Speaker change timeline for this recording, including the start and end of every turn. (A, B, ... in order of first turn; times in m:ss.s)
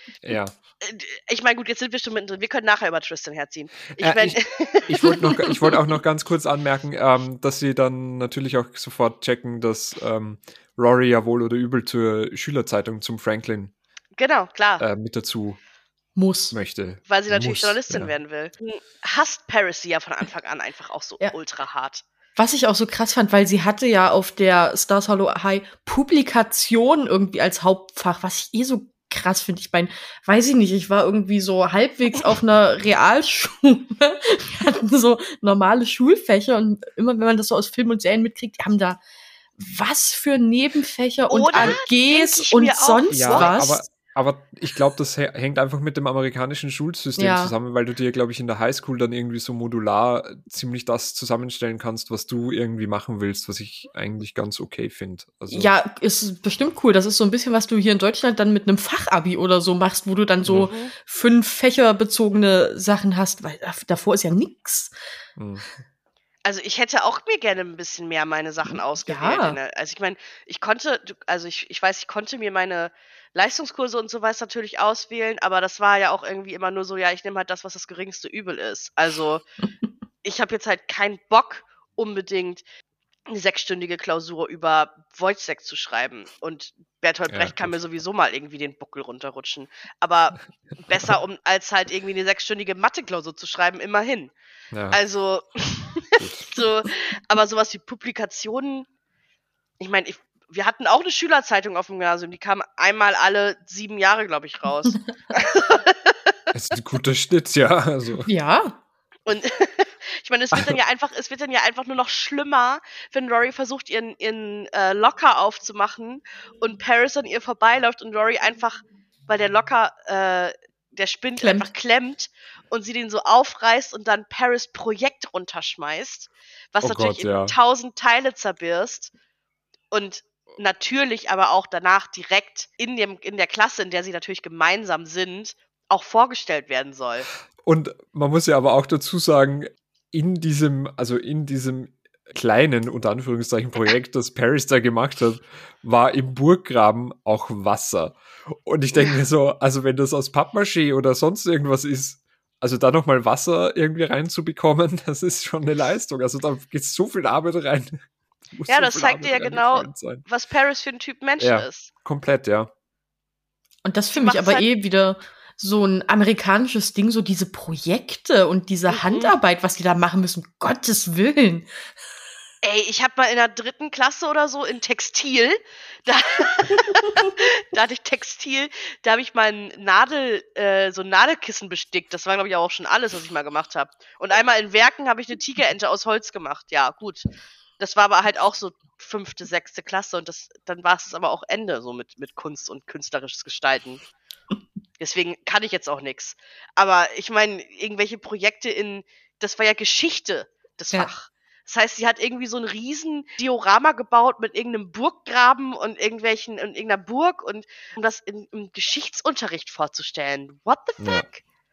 0:00.2-0:00.6 A
0:00.8-0:05.8 B
0:04.0-0:13.7 A
0:14.2-0:14.8 B
0:14.8-0:15.6 A
0:16.2-0:16.6 C
0:16.5-0:18.1 A
0:17.1-0:22.0 B
0:22.4-0:39.0 C
0:39.6-0:43.8 C
0:41.3-0:43.6 B
0:43.1-0:55.7 A
0:47.2-0:47.5 C
0:55.5-1:04.9 C
1:00.4-1:00.7 A
1:00.6-1:00.9 B
1:05.4-1:05.7 A
1:06.4-1:19.4 B
1:09.0-1:09.6 C
1:20.2-1:22.6 B
1:23.3-1:34.3 B
1:27.3-1:27.8 A
1:34.7-1:35.0 A
1:34.9-1:38.9 B
1:36.2-1:36.5 A
1:39.8-1:46.3 B
1:46.5-1:48.3 A
1:48.3-1:48.8 C
1:49.3-2:09.1 B
1:50.5-1:50.8 A
2:01.4-2:01.7 C
2:06.8-2:07.6 A
2:09.9-2:17.3 B
2:17.6-2:40.3 A
2:38.7-2:41.9 B
2:41.4-2:42.7 A
2:43.8-2:51.7 C
2:44.1-2:44.7 B
2:48.9-2:49.3 B
2:52.6-3:14.0 B
3:15.0-3:31.4 B
3:31.0-3:31.3 A